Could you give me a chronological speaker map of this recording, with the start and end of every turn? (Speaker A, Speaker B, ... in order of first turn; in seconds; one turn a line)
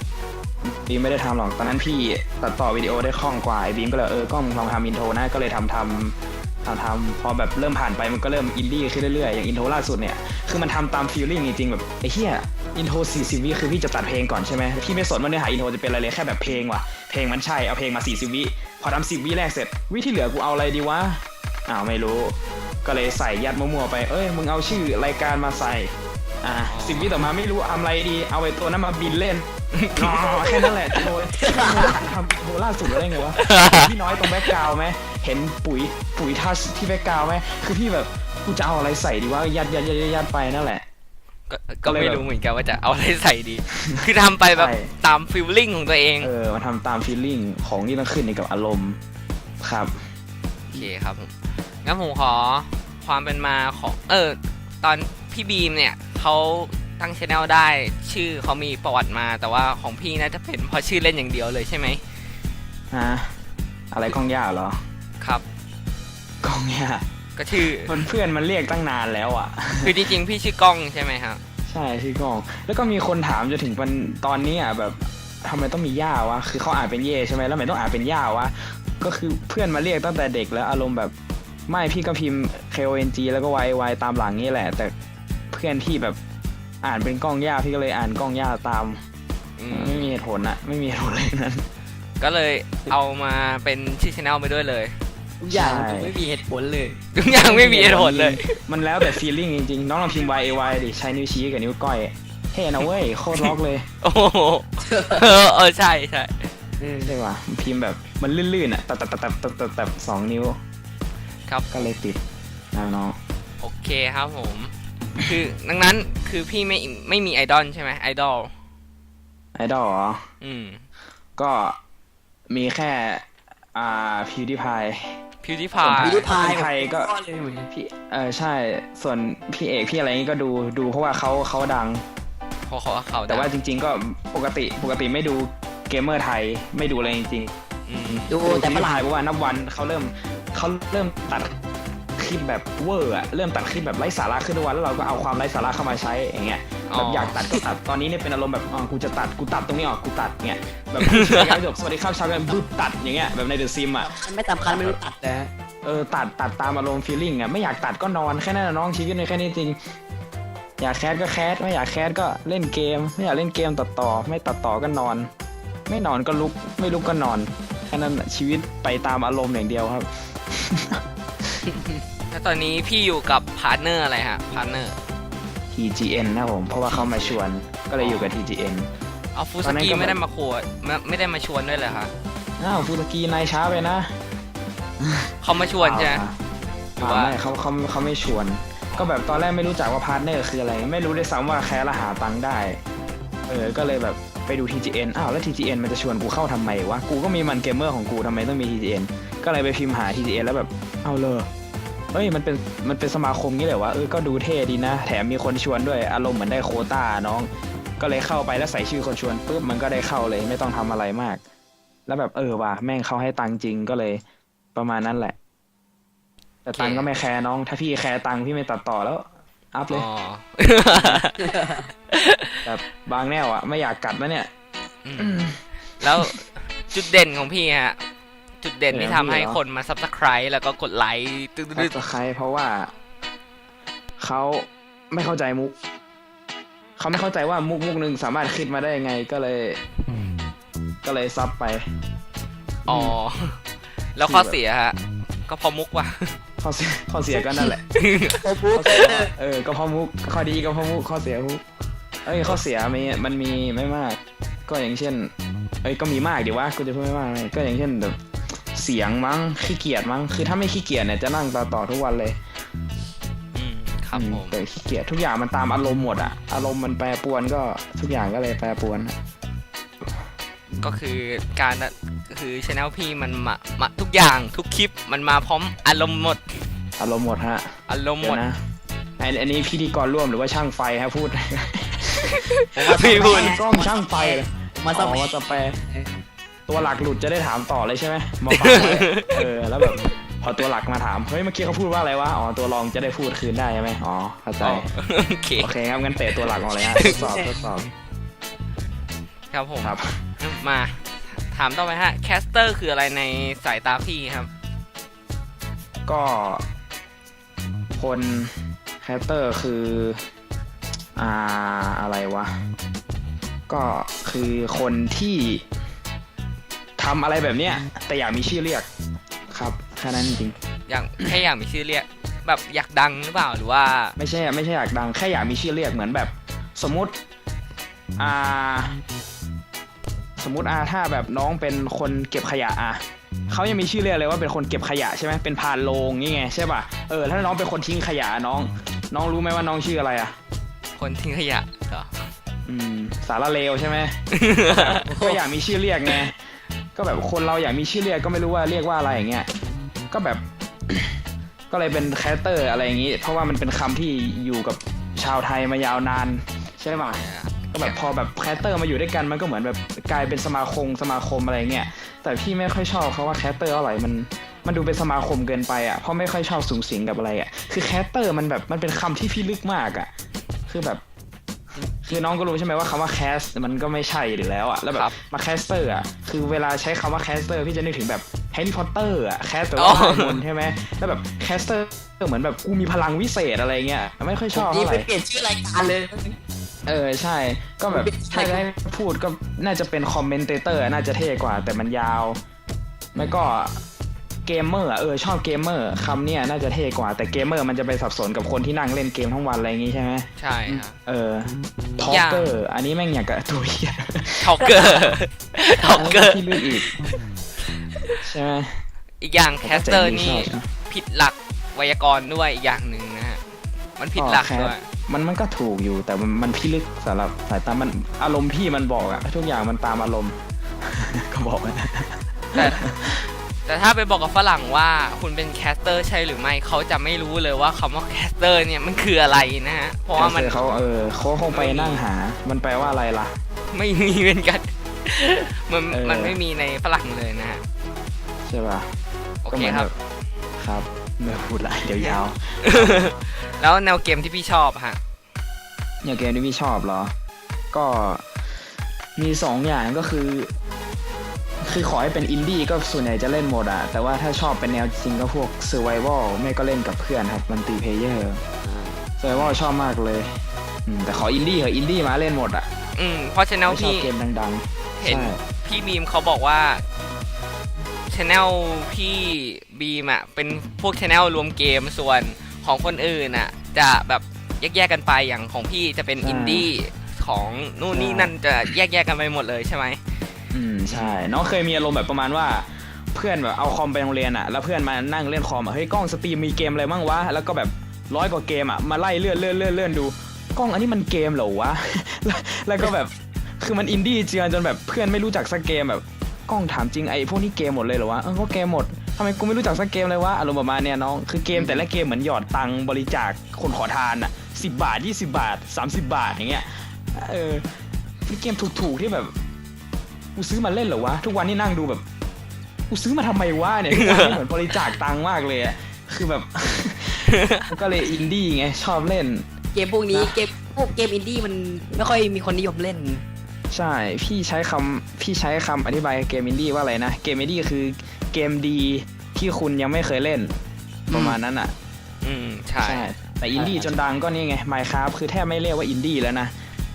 Speaker A: 0.6-40.9
Speaker B: 26.7-27.3
Speaker B: 29.8-31.0
Speaker C: 31.4-32.0
Speaker B: 33.4-33.9
Speaker B: 41.5-46.3
Speaker A: 41.9-42.3
Speaker A: 44.5-44.9
Speaker A: 46.2-49.0
Speaker A: 49.6-50.1
Speaker B: 50.7-62.0
Speaker A: 62.9-63.3
Speaker A: 63.9-64.8
Speaker A: 66.4-67.1
Speaker B: 67.4-68.0
Speaker A: 67.6-70.1
Speaker B: 69.8-71.4
Speaker A: 71.7-81.1
Speaker A: 81.7-84.9
Speaker A: 85.5-86.2
Speaker A: 86.8-89.0
Speaker B: 89.6-90.2
Speaker A: 89.7-91.7
Speaker B: 92.2-95.0
Speaker C: 95.4-97.5
Speaker A: 95.5-96.2
Speaker B: 97.1-98.6
Speaker A: 97.4-103.8
Speaker B: 104.0-106.5
Speaker C: 104.8-105.2
Speaker C: 106.8-107.2
Speaker A: 107.0-110.6
Speaker B: 111.5-111.9
Speaker A: 111.7-112.2
Speaker A: 112.7-113.2
Speaker B: 113.6-118.5
Speaker A: 119.5-120.2
Speaker B: 120.4-120.8
Speaker A: 121.4-121.8
Speaker A: 122.5-125.2
Speaker B: 125.4-126.3
Speaker A: 125.8-127.1
Speaker C: 125.8-127.7
Speaker A: 127.7-132.0
Speaker B: 132.7-133.5
Speaker A: 133.3-137.5
Speaker B: 137.9-138.3
Speaker A: 138.1-141.5
Speaker C: 138.3-139.1
Speaker A: 142.2-154.1
Speaker B: 146.9-147.5
Speaker B: 151.0-151.6
Speaker C: 154.0-155.5
Speaker A: 154.7-155.0
Speaker A: 155.8-159.8
Speaker A: 160.8-165.3
Speaker A: 165.9-171.6
Speaker B: 172.3-175.0
Speaker A: 175.7-178.9
Speaker B: 176.9-177.4
Speaker B: 178.0-178.3
Speaker B: 179.3-182.1
Speaker A: 179.6-180.2
Speaker A: 182.6-184.1
Speaker A: 185.0-186.4
Speaker B: 185.4-186.2
Speaker B: 187.0-187.4
Speaker A: 187.0-192.8
Speaker A: 193.5-201.5
Speaker A: 202.1-211.4
Speaker A: 212.1-214.2
Speaker A: 214.8-215.4
Speaker A: 216.7-220.1
Speaker B: 216.7-217.1
Speaker B: 219.9-221.6
Speaker A: 220.9-221.2
Speaker C: 221.4-221.8
Speaker B: 222.1-222.7
Speaker A: 222.7-224.5
Speaker B: 225.1-228.0
Speaker A: 225.2-226.3
Speaker B: 228.6-232.0
Speaker A: 228.9-229.6
Speaker A: 231.8-232.9
Speaker A: 234.2-235.8
Speaker A: 237.0-239.8
Speaker A: 241.0-241.9
Speaker A: 242.9-243.2
Speaker B: 242.9-243.6
Speaker B: 244.2-246.4
Speaker A: 244.2-244.6
Speaker A: 246.6-248.0
Speaker B: 247.9-249.2
Speaker C: 248.4-249.3
Speaker A: 248.8-251.6
Speaker A: 252.2-255.3
Speaker A: 255.8-258.2
Speaker A: 258.7-262.4
Speaker B: 263.6-264.6
Speaker A: 264.1-269.2
Speaker B: 270.8-276.7
Speaker A: 277.0-278.6
Speaker B: 277.9-278.4
Speaker A: 279.2-285.8
Speaker B: 282.3-283.6
Speaker C: 282.8-286.1
Speaker A: 286.7-294.9
Speaker B: 288.5-289.5
Speaker B: 294.6-295.7
Speaker A: 295.6-297.9
Speaker B: 296.7-297.4
Speaker C: 297.1-297.4
Speaker B: 299.5-304.5
Speaker A: 299.8-300.2
Speaker A: 306.1-306.7
Speaker A: 308.0-310.2
Speaker A: 311.2-312.6
Speaker A: 313.7-315.7
Speaker A: 317.0-318.9
Speaker A: 319.5-320.6
Speaker B: 320.9-324.2
Speaker A: 324.2-327.2
Speaker A: 328.2-329.0
Speaker A: 330.4-340.4
Speaker B: 341.0-342.3
Speaker A: 342.7-346.4
Speaker B: 344.3-345.3
Speaker A: 347.0-349.5
Speaker A: 350.1-351.2
Speaker A: 351.7-357.2
Speaker B: 357.1-358.0
Speaker A: 357.7-370.1
Speaker A: 370.7-371.0
Speaker A: 372.1-385.1
Speaker B: 379.8-380.4
Speaker C: 384.5-386.4
Speaker A: 386.9-392.4
Speaker C: 387.9-388.6
Speaker A: 393.1-393.8
Speaker A: 394.5-404.8
Speaker B: 400.4-401.0
Speaker B: 402.0-402.5
Speaker B: 404.4-406.9
Speaker A: 405.9-406.9
Speaker B: 407.7-408.2
Speaker A: 408.2-408.8
Speaker B: 409.2-413.4
Speaker A: 409.6-410.7
Speaker B: 414.0-414.9
Speaker A: 414.2-423.3
Speaker B: 422.5-422.9
Speaker B: 423.7-430.6
Speaker A: 430.2-433.4
Speaker B: 431.5-432.0
Speaker B: 433.7-437.6
Speaker A: 435.9-436.4
Speaker A: 438.4-438.9
Speaker B: 439.4-439.9
Speaker A: 439.5-439.9
Speaker A: 440.6-443.1
Speaker B: 442.6-445.0
Speaker A: 446.0-447.1
Speaker A: 447.7-448.3
Speaker A: 449.2-450.5
Speaker A: 451.6-458.4
Speaker C: 458.6-459.1
Speaker A: 459.2-460.3
Speaker B: 459.3-459.6
Speaker A: 460.9-462.7
Speaker B: 463.0-464.1
Speaker A: 463.7-465.4
Speaker B: 465.0-466.8
Speaker B: 468.1-480.0
Speaker A: 476.2-476.7
Speaker A: 477.9-478.3
Speaker A: 480.5-507.7
Speaker B: 480.9-481.2
Speaker A: 508.3-509.3
Speaker A: 510.4-512.0
Speaker A: 512.9-519.5
Speaker B: 513.9-514.4
Speaker B: 517.3-517.7
Speaker C: 519.7-523.2
Speaker A: 520.1-520.4
Speaker A: 523.7-530.5
Speaker A: 531.1-531.7
Speaker B: 532.2-533.1
Speaker A: 532.8-536.5